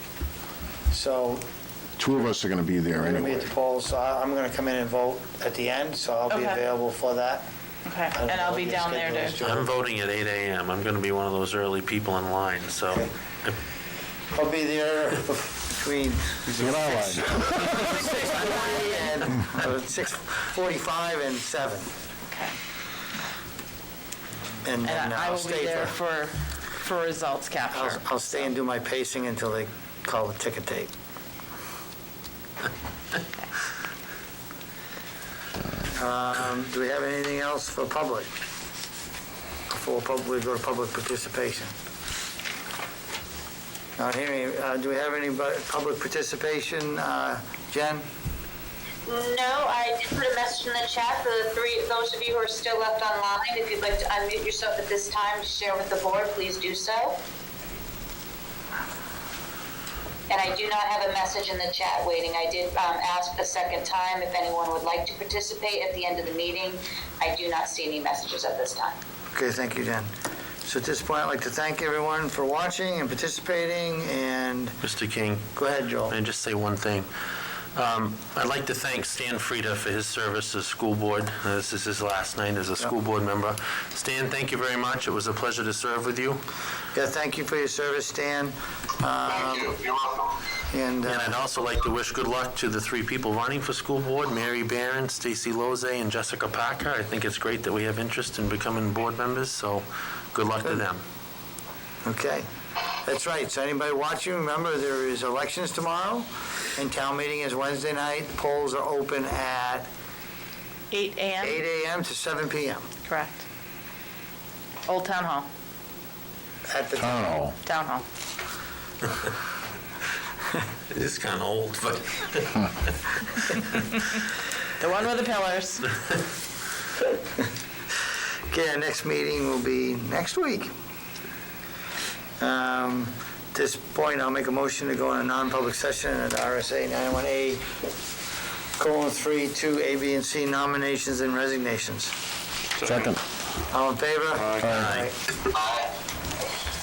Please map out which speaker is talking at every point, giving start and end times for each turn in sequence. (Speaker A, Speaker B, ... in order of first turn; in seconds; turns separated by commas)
Speaker A: 0.9-1.4, Speaker B: 2.0-3.4, Speaker A: 3.0-7.5, Speaker C: 6.3-6.6, Speaker C: 7.8-9.4, Speaker A: 8.1-9.7, Speaker D: 9.4-13.6, Speaker A: 14.3-21.9, Speaker B: 16.5-18.0, Speaker C: 22.3-22.6, Speaker A: 24.6-26.0, Speaker C: 24.8-28.0, Speaker A: 27.7-30.9, Speaker A: 35.9-38.3, Speaker A: 39.7-41.7, Speaker A: 44.0-48.0, Speaker E: 49.0-57.2, Speaker E: 60.3-68.9, Speaker A: 69.3-70.1, Speaker A: 70.6-74.8, Speaker D: 74.8-75.5, Speaker A: 75.5-76.1, Speaker D: 76.1-77.1, Speaker D: 77.7-86.4, Speaker A: 86.9-91.4, Speaker D: 91.0-101.0, Speaker A: 102.0-102.5, Speaker A: 103.0-109.9, Speaker C: 110.9-111.6, Speaker A: 111.4-112.9, Speaker C: 113.1-113.4, Speaker C: 114.8-115.5, Speaker A: 116.7-117.4, Speaker B: 117.0-117.6, Speaker C: 117.6-118.0, Speaker D: 120.9-122.7, Speaker C: 124.8-125.9, Speaker A: 128.5-130.7, Speaker A: 132.4-137.6, Speaker A: 138.8-142.1, Speaker B: 142.8-143.2, Speaker A: 143.7-145.1, Speaker B: 144.6-144.9, Speaker D: 144.8-145.1